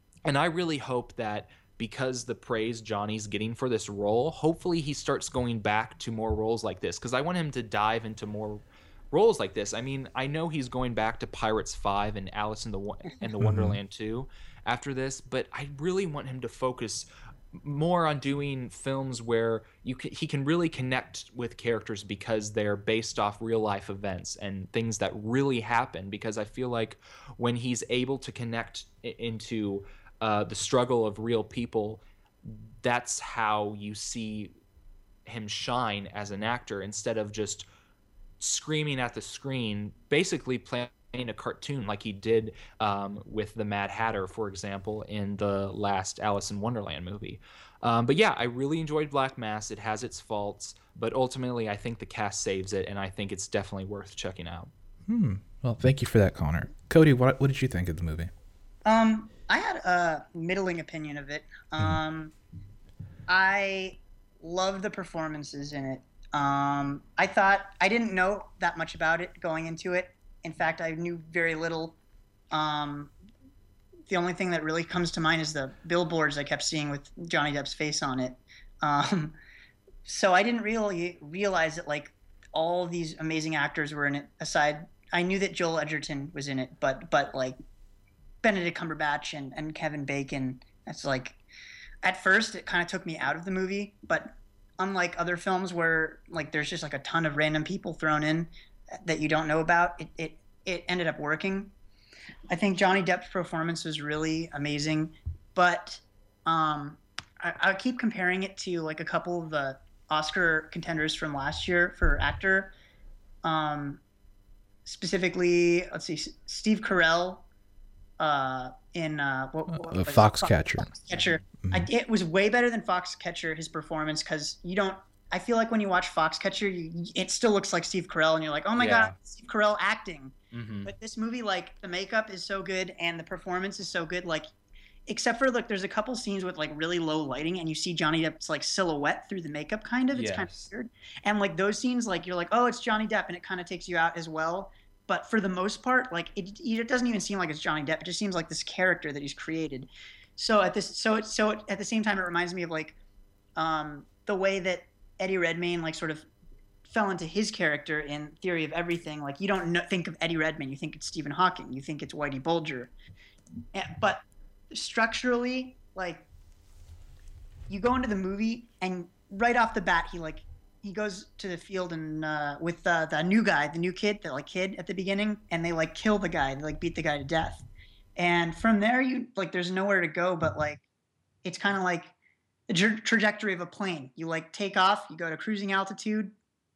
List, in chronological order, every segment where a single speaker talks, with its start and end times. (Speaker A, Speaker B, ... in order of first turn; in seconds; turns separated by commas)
Speaker A: 0.2-34.5, Speaker B: 13.4-13.8, Speaker A: 35.2-37.6, Speaker A: 38.4-54.7, Speaker B: 55.1-58.3, Speaker C: 58.9-62.3, Speaker C: 63.3-72.0, Speaker C: 72.5-73.1, Speaker C: 74.1-79.4, Speaker C: 80.0-87.6, Speaker C: 88.4-91.4, Speaker C: 92.0-98.5, Speaker C: 99.0-101.7, Speaker C: 102.5-112.7, Speaker C: 113.4-114.0, Speaker C: 114.8-117.5, Speaker C: 118.2-130.3, Speaker B: 119.7-120.9, Speaker B: 121.6-121.9, Speaker A: 128.8-129.1, Speaker A: 130.5-130.9, Speaker C: 130.8-134.5, Speaker C: 135.1-153.0, Speaker A: 140.1-140.7, Speaker C: 153.6-156.3, Speaker C: 156.8-162.9, Speaker C: 163.7-166.3, Speaker C: 167.7-177.7, Speaker C: 178.2-180.8, Speaker C: 181.4-182.1, Speaker C: 182.7-186.3